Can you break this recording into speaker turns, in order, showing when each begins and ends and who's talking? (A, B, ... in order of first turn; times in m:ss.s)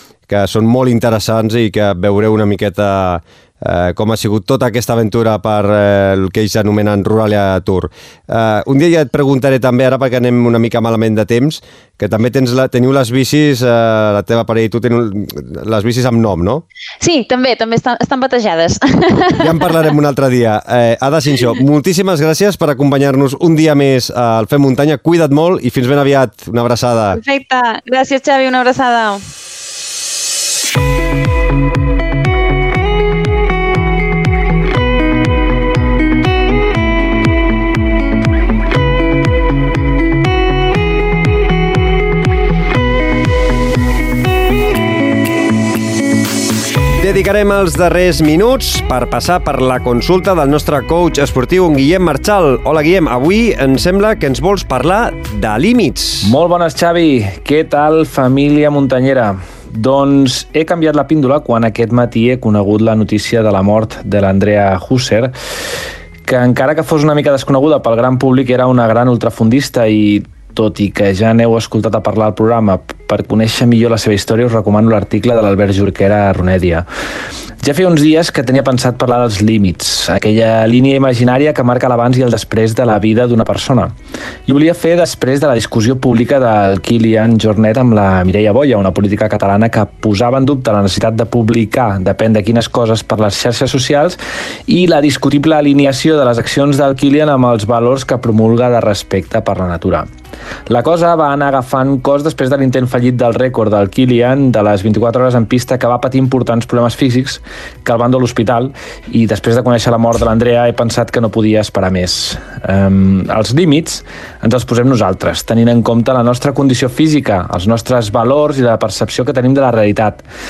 0:00.3-0:16.6 A
0:17.0-0:19.8 B
0:19.4-0:27.2 A
0:27.1-0:29.3 B
0:47.0-0:56.4 A
0:56.2-1:05.3 C
1:06.3-1:16.9 C
1:17.6-1:23.9 C
1:24.5-1:40.1 C
1:40.7-2:00.2 C